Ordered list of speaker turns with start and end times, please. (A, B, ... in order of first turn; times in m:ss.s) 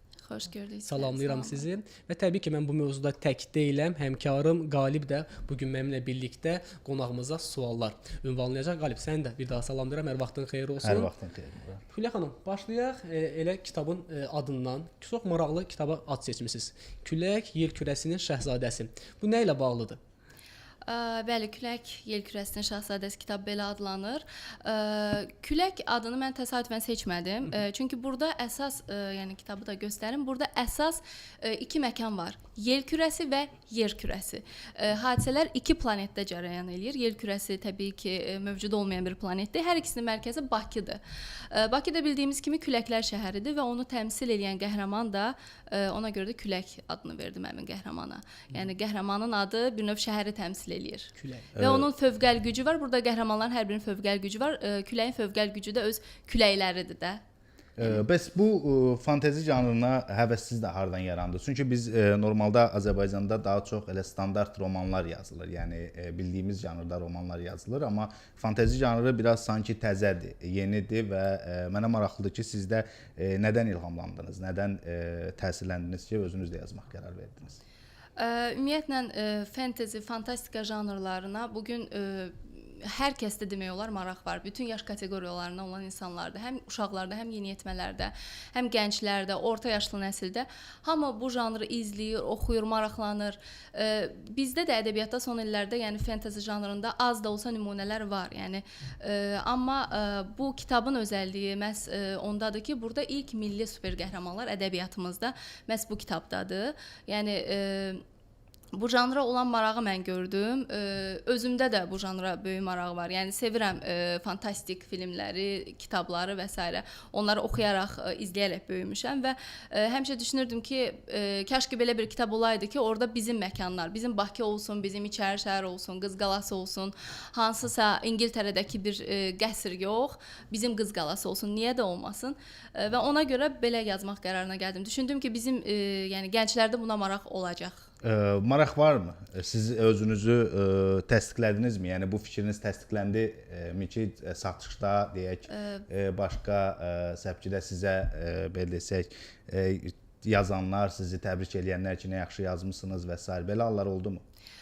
0:00.2-0:01.7 A
0:00.8-0:11.1 B
0:10.8-0:11.8 C
0:11.9-0:20.0 B
0:20.8-0:57.2 A
0:51.2-0:51.5 B
0:51.6-0:51.9 C
0:57.8-1:17.6 C
1:18.2-1:48.0 A
1:48.7-2:17.9 A
2:18.0-2:34.2 C
2:25.5-2:25.8 A